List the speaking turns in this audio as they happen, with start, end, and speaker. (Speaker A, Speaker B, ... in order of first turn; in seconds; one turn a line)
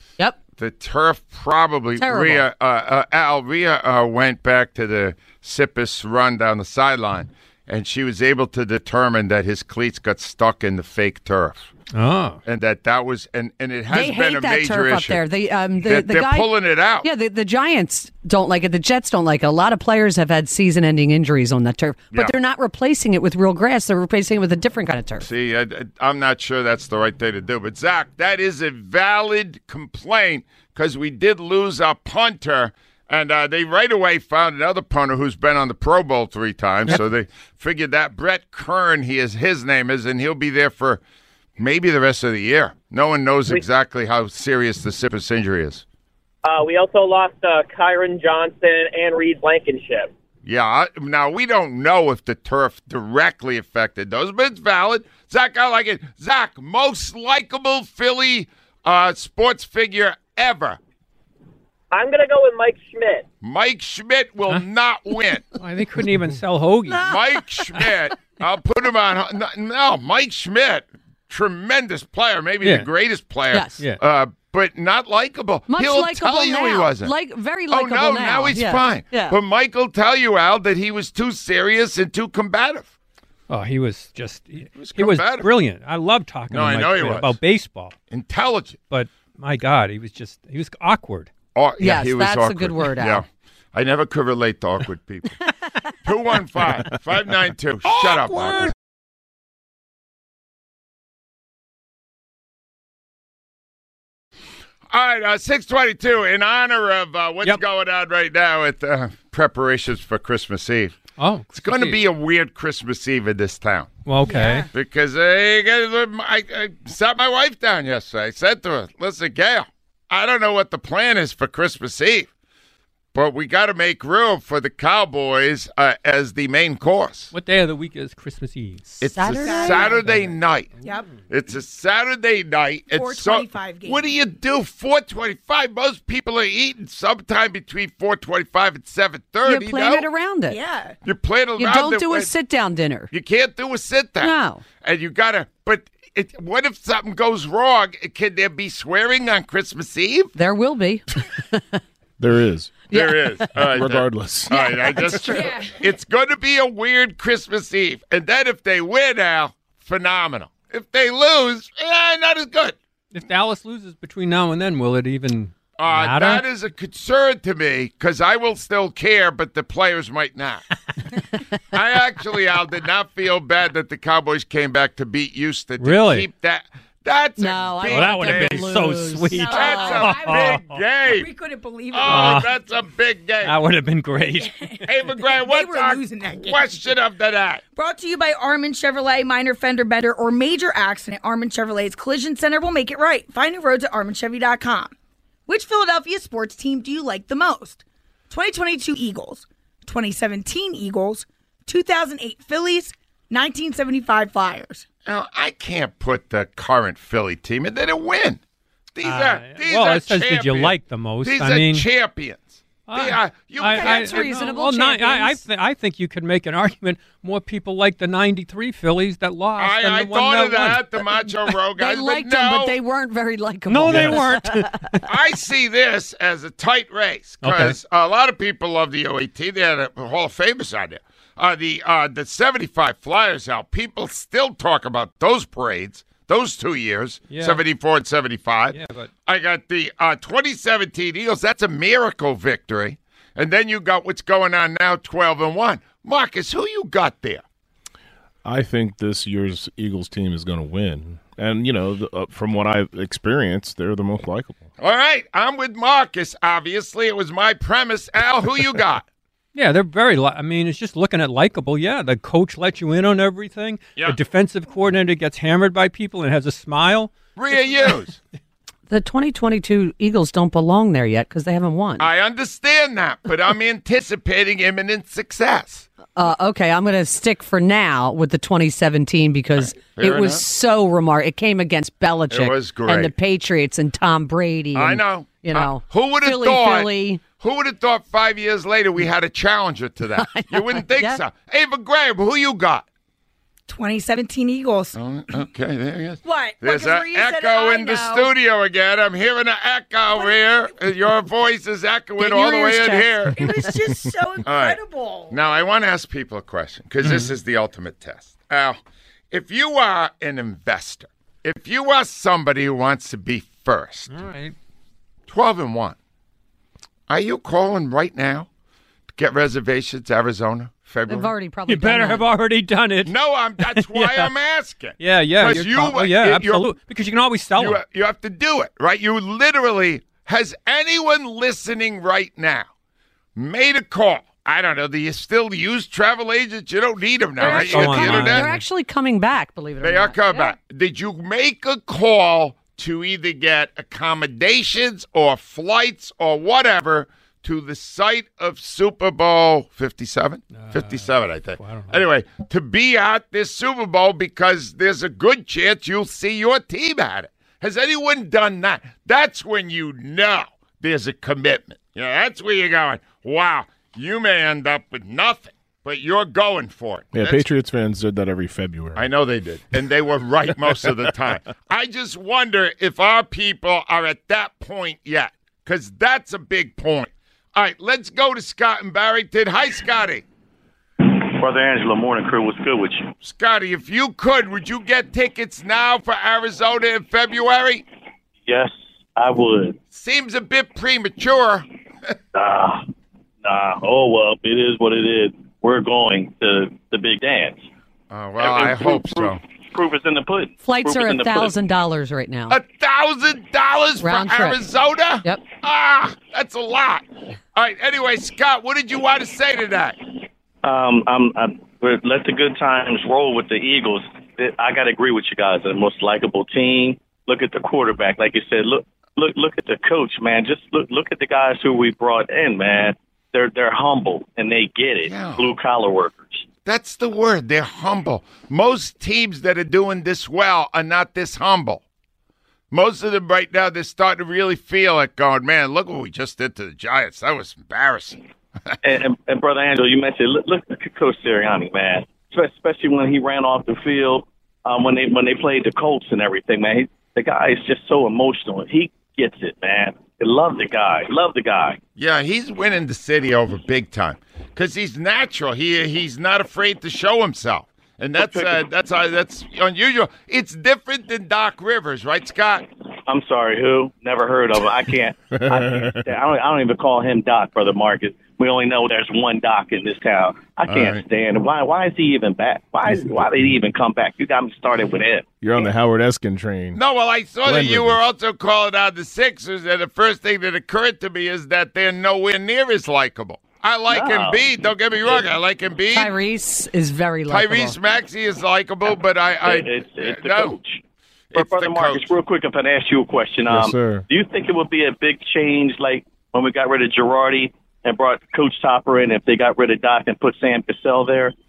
Speaker A: 0.6-11.7
Speaker B: 2.0-2.4
Speaker C: 11.9-12.4
Speaker A: 12.4-15.2
Speaker B: 13.9-25.2
Speaker A: 15.8-17.1
Speaker A: 25.2-41.0
Speaker A: 41.6-45.8
Speaker D: 46.4-50.1
Speaker A: 50.4-60.8
Speaker D: 61.9-63.2
Speaker A: 63.4-65.4
Speaker C: 65.6-67.1
Speaker A: 67.0-77.1
Speaker C: 72.6-72.9
Speaker B: 73.5-73.8
Speaker B: 75.7-79.4
Speaker A: 77.7-82.9
Speaker C: 83.5-88.0
Speaker A: 84.7-85.5
Speaker A: 86.5-87.3
Speaker A: 88.1-88.8
Speaker C: 88.9-91.3
Speaker A: 91.5-95.3
Speaker B: 91.8-93.2
Speaker A: 96.0-98.7
Speaker A: 104.9-111.0
Speaker C: 111.2-112.0
Speaker A: 111.5-113.9
Speaker C: 114.0-114.7
Speaker E: 114.2-114.7
Speaker A: 114.7-122.3
Speaker A: 123.1-127.3
Speaker C: 127.3-129.0
Speaker A: 129.0-130.7
Speaker B: 129.0-129.9
Speaker E: 129.3-130.1
Speaker E: 130.8-131.1
Speaker A: 131.3-140.1
Speaker E: 132.9-134.0
Speaker B: 139.4-140.6
Speaker E: 140.5-140.9
Speaker A: 141.0-142.3
Speaker B: 141.6-143.1
Speaker A: 143.1-150.3
Speaker B: 144.2-144.6
Speaker B: 150.3-151.8
Speaker F: 152.2-152.8
Speaker A: 152.9-162.8
Speaker B: 152.9-153.4
Speaker F: 153.5-155.1
Speaker E: 155.1-155.9
Speaker C: 163.1-166.4
Speaker A: 165.8-170.6
Speaker A: 171.7-178.7
Speaker C: 175.8-176.3
Speaker B: 177.4-179.9
Speaker C: 177.8-180.6
Speaker E: 179.3-182.5
Speaker A: 179.4-181.3
Speaker A: 181.9-183.6
Speaker C: 182.1-182.5
Speaker C: 183.4-184.6
Speaker E: 184.4-186.9
Speaker A: 184.8-187.6
Speaker E: 187.7-194.9
Speaker E: 195.5-204.8
Speaker A: 205.0-208.4
Speaker A: 208.9-214.4
Speaker C: 209.0-211.8
Speaker C: 212.9-221.0
Speaker B: 213.6-215.4
Speaker A: 219.6-222.8
Speaker B: 221.8-225.0
Speaker C: 223.7-224.7
Speaker A: 223.9-224.2
Speaker A: 225.1-247.4
Speaker C: 227.4-227.8
Speaker C: 237.3-237.6
Speaker C: 238.7-239.1
Speaker F: 248.4-254.6
Speaker A: 254.8-259.1
Speaker C: 259.5-267.1
Speaker A: 267.4-268.2
Speaker B: 268.9-272.1
Speaker A: 272.0-275.9
Speaker B: 276.1-287.3
Speaker A: 279.6-280.4
Speaker A: 282.3-283.1
Speaker A: 284.7-292.9
Speaker B: 290.1-291.2
Speaker E: 293.7-295.4
Speaker A: 294.9-303.5
Speaker E: 296.2-298.3
Speaker E: 300.1-300.9
Speaker B: 302.2-303.7
Speaker E: 303.3-305.4
Speaker A: 304.4-308.8
Speaker C: 307.0-307.3
Speaker A: 309.3-314.1
Speaker C: 314.1-314.5
Speaker A: 315.3-316.0
Speaker A: 317.1-318.5
Speaker A: 319.1-321.3
Speaker B: 321.1-322.3
Speaker C: 321.7-324.3
Speaker A: 323.0-326.7
Speaker C: 325.0-327.8
Speaker A: 327.6-332.7
Speaker A: 333.3-338.5
Speaker B: 337.4-340.5
Speaker C: 337.4-338.6
Speaker A: 339.8-367.4
Speaker C: 350.5-351.0
Speaker C: 351.6-352.0
Speaker F: 367.1-369.0
Speaker A: 368.9-380.2
Speaker G: 381.0-383.1
Speaker A: 383.2-387.8
Speaker G: 388.4-389.8
Speaker A: 389.9-391.6
Speaker G: 392.3-392.9
Speaker G: 393.4-397.7
Speaker A: 398.1-399.4
Speaker G: 398.4-401.5
Speaker B: 400.6-402.6
Speaker A: 402.5-410.0
Speaker B: 404.0-404.6
Speaker G: 410.6-426.4
Speaker A: 425.0-425.5
Speaker A: 426.6-431.8
Speaker A: 432.7-438.2
Speaker G: 438.8-451.8
Speaker A: 451.9-462.6
Speaker G: 458.1-458.7
Speaker G: 463.1-475.6
Speaker F: 465.3-466.0
Speaker A: 470.7-471.0
Speaker F: 472.9-473.2
Speaker F: 475.4-476.8
Speaker A: 476.7-486.2
Speaker F: 477.4-478.0
Speaker G: 483.9-485.3
Speaker B: 485.9-487.8
Speaker A: 487.3-490.6
Speaker G: 489.4-490.8
Speaker A: 491.3-492.1
Speaker G: 491.3-501.3
Speaker F: 493.5-494.0